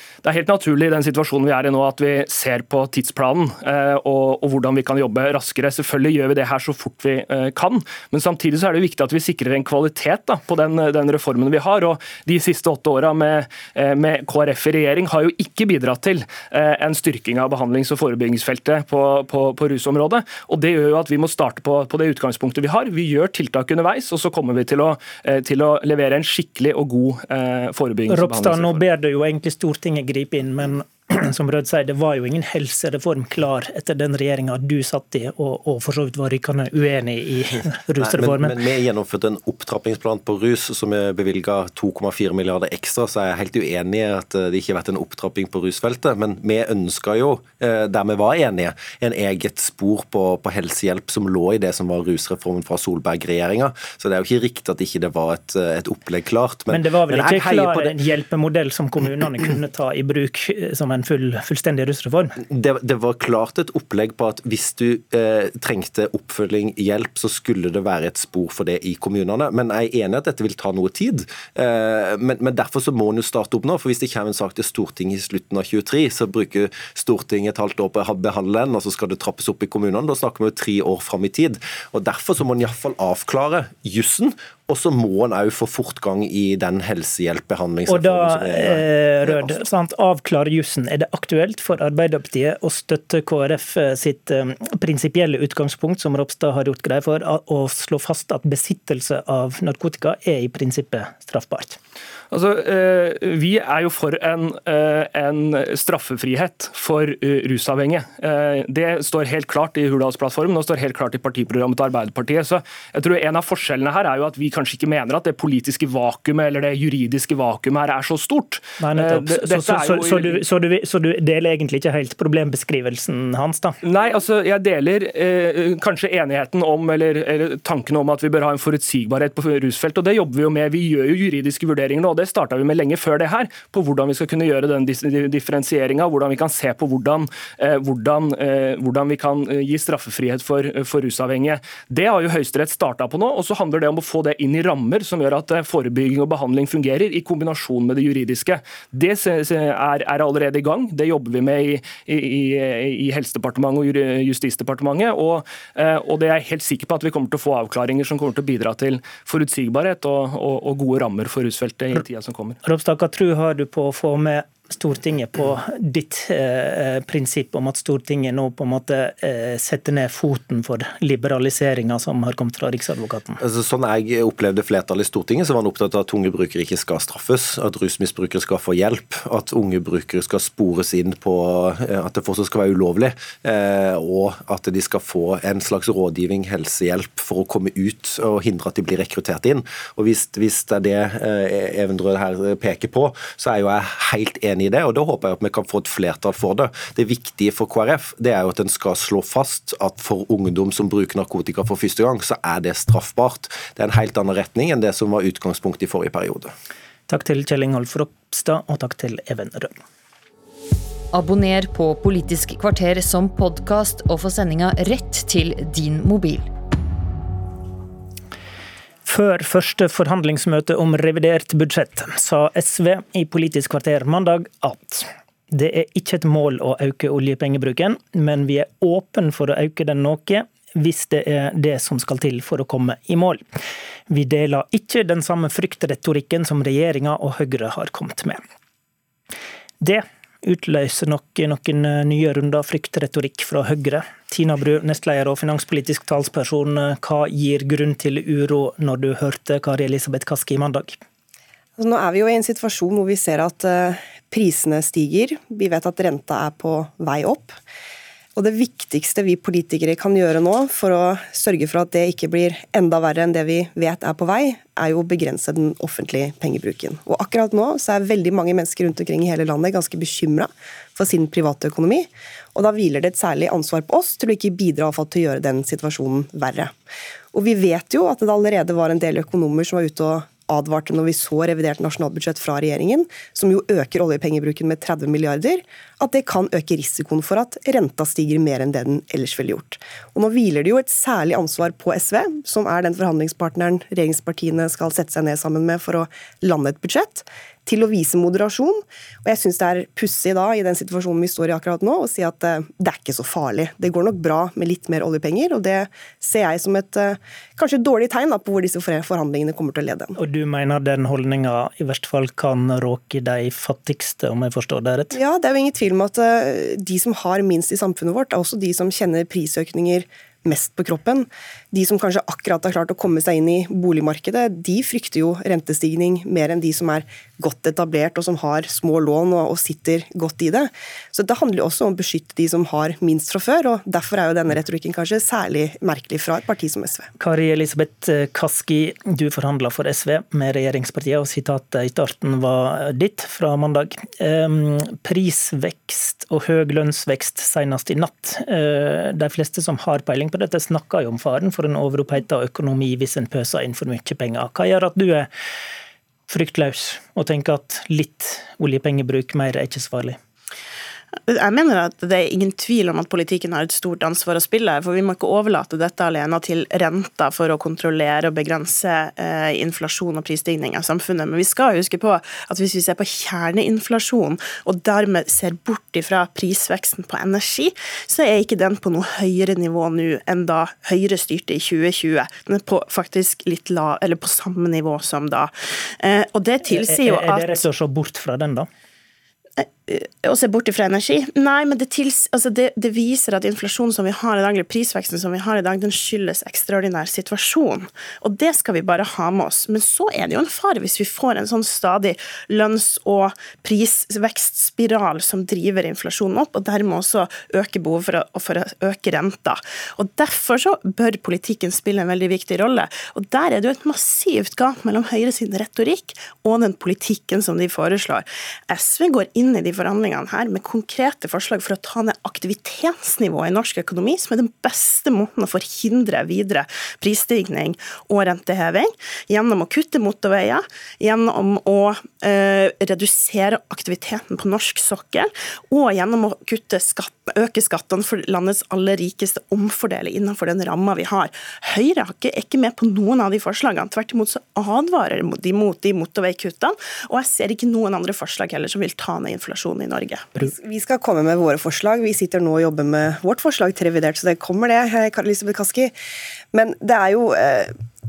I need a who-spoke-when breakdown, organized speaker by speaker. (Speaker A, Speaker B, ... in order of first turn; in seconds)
Speaker A: 0.2-28.8, 102.3-120.4, 123.8-162.6
Speaker B: 28.1-38.5, 56.7-62.4, 87.9-101.8, 118.8-123.8, 162.6-173.4, 207.1-209.7, 219.0-233.4, 234.1-238.4, 239.8-251.0, 310.2-315.2, 337.2-355.3, 356.3-360.2, 386.6-388.7
Speaker C: 38.0-58.0, 62.5-89.6, 173.4-206.5
Speaker D: 211.2-216.4
Speaker E: 251.8-257.5, 258.4-276.7, 277.3-310.2, 315.1-337.1, 450.4-455.9, 456.5-457.7
Speaker F: 361.3-387.6, 389.6-450.3